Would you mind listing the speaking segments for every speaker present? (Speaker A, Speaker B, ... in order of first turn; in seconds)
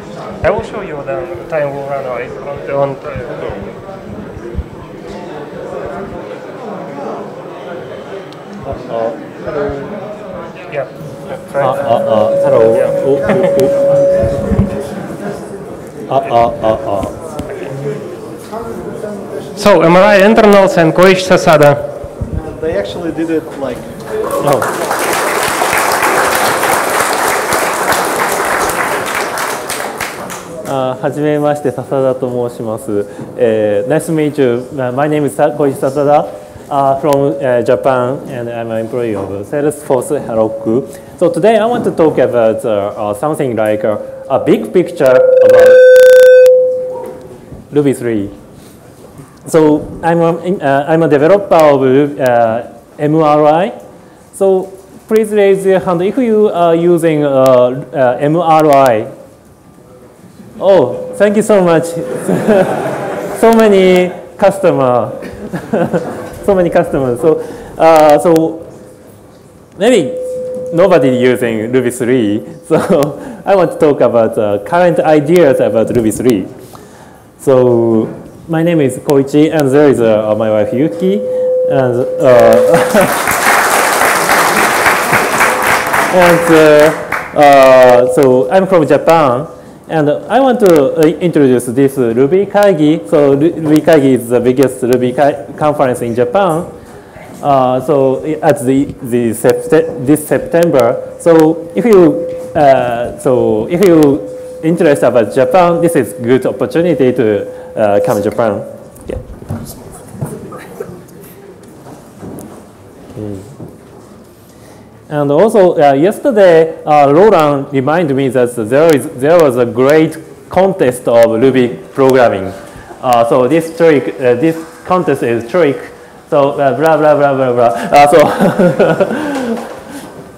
Speaker A: 0.4-3.7, 10.7-12.0, 12.7-13.5, 17.5-17.8, 19.6-21.9
Speaker B: 8.6-9.8, 11.6-13.9, 16.1-17.2, 24.4-24.7, 30.6-46.2, 47.7-48.4, 49.4-53.8, 54.3-59.1, 60.6-68.7, 69.8-76.5, 77.4-83.4, 86.1-96.7, 97.4-109.2, 113.2-113.5, 115.1-129.7
Speaker C: 18.4-19.9, 22.3-24.0